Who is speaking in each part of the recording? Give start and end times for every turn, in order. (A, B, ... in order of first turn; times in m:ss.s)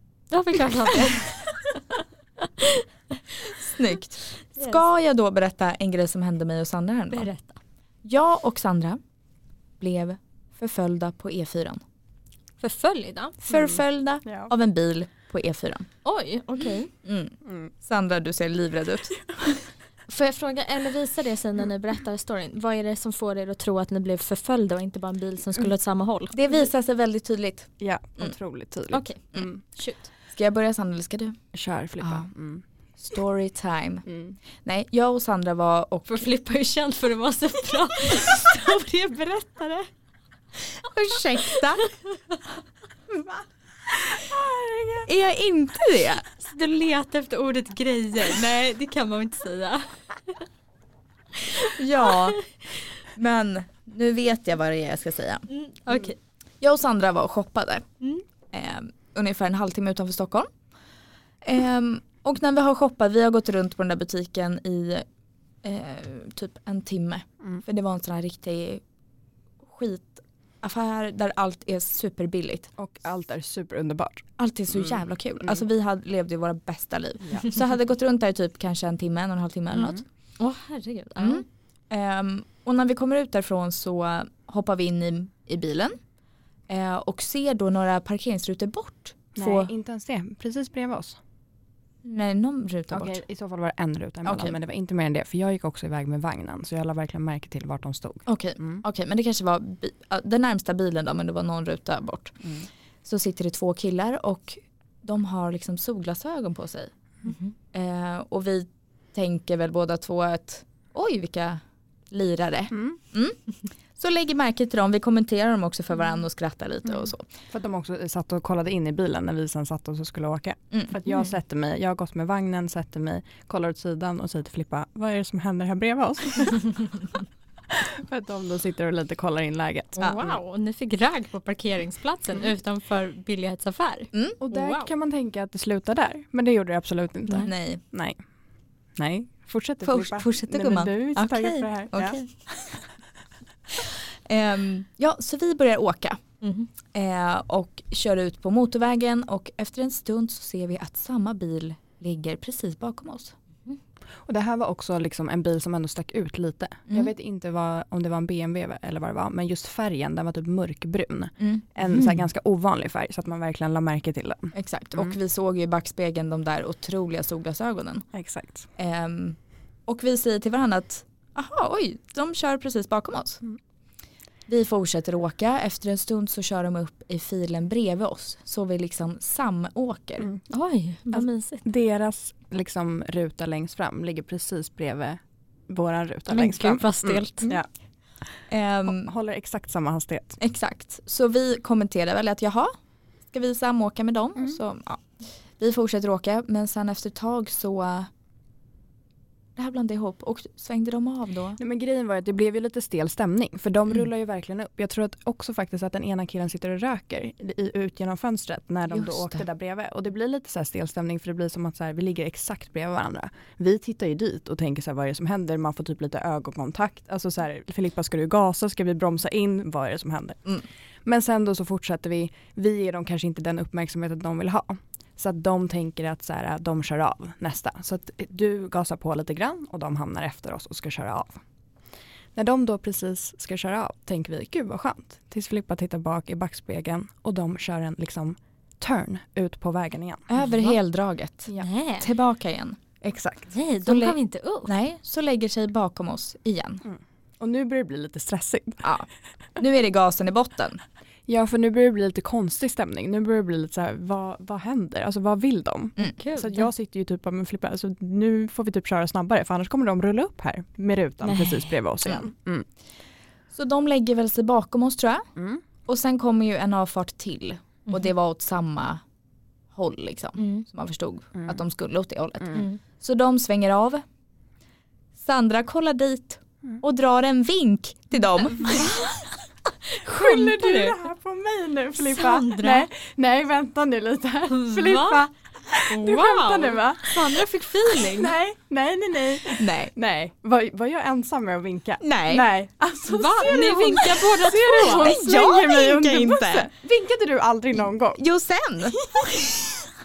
0:00.3-0:03.5 A
0:03.6-0:07.3 B
0:07.1-0:07.6 A
0:08.0-0:09.0 B
0:09.8-0:11.8 B
0:12.6-0:13.4 A
0:13.4-0:15.9 B
0:13.5-0:14.5 C
0:16.0-0:16.9 A
0:17.0-0:19.2 B
0:17.4-0:17.7 C
0:20.1-0:26.4 A
0:26.3-0:28.3 B
0:27.8-0:29.6 C
0:28.9-0:30.1 A
0:30.3-0:31.4 B
0:31.5-0:32.6 C
0:32.0-0:32.3 B
0:33.0-0:34.0 B
0:34.1-0:34.4 C
0:34.6-0:36.3 B
0:36.1-0:39.9 A
0:40.8-0:41.8 B
0:41.4-0:41.9 A
0:44.1-0:45.1 C
0:45.0-0:46.2 B
0:46.4-0:50.4 A
0:51.4-0:52.4 A
0:51.7-0:52.4 B
0:53.1-0:55.5 B
0:55.5-0:56.2 A
0:56.6-0:57.8 B
0:58.5-1:00.5 B
1:01.4-1:05.0 B
1:05.6-1:08.8 B
1:09.6-1:12.7 B
1:12.8-1:14.3 C
1:14.4-1:20.0 B
1:14.8-1:15.6 C
1:19.7-1:20.0 C
1:20.4-1:21.4 A
1:21.2-1:26.0 B
1:26.7-1:29.7 B
1:29.3-1:31.2 C
1:32.0-1:33.2 B
1:32.9-1:38.8 C
1:34.2-1:34.6 B
1:38.3-1:42.4 B
1:43.0-1:53.4 B
1:47.2-1:47.5 A
1:52.7-1:53.0 C
1:53.9-1:57.3 B
1:56.9-2:07.1 C
2:07.7-2:10.1 C
2:10.0-2:14.9 A
2:10.0-2:10.3 B
2:14.1-2:14.4 B
2:14.4-2:18.2 C
2:17.4-2:17.8 B
2:19.0-2:22.2 C
2:19.8-2:22.8 B
2:23.7-2:26.2 B
2:26.4-2:26.7 A
2:26.9-2:33.3 B
2:34.2-2:45.1 C
2:41.4-2:42.2 B
2:44.5-2:48.0 B
2:48.1-2:48.7 C
2:48.8-2:53.4 B
2:54.5-3:00.3 B
3:00.5-3:01.6 A
3:01.1-3:07.6 C
3:06.3-3:07.5 A
3:08.5-3:09.1 B
3:08.8-3:10.4 C
3:10.4-3:12.7 B
3:13.3-3:18.1 B
3:19.6-3:21.6 B
3:21.6-3:51.4 C
3:28.9-3:29.4 B
3:52.4-4:00.3 C
4:00.3-4:02.8 B
4:01.6-4:02.1 A
4:03.0-4:03.5 C
4:03.5-4:04.7 A
4:03.8-4:06.8 B
4:06.8-4:08.9 C
4:08.8-4:10.8 B
4:11.3-4:22.6 C
4:16.0-4:16.6 A
4:21.2-4:21.7 A
4:23.5-4:25.2 B
4:25.4-4:25.6 C
4:25.8-4:29.0 B
4:29.7-4:34.0 B
4:30.4-4:30.6 A
4:35.2-4:39.1 B
4:38.7-4:39.1 A
4:39.9-4:41.0 A
4:40.0-4:47.4 C
4:42.0-4:42.9 A
4:44.5-4:45.3 A
4:45.9-4:48.4 A
4:47.9-4:58.2 C
4:49.6-4:49.9 B
4:52.0-4:52.5 B
4:53.1-4:55.2 A
4:54.9-4:56.7 B
4:58.1-4:59.6 B
4:58.9-4:59.5 C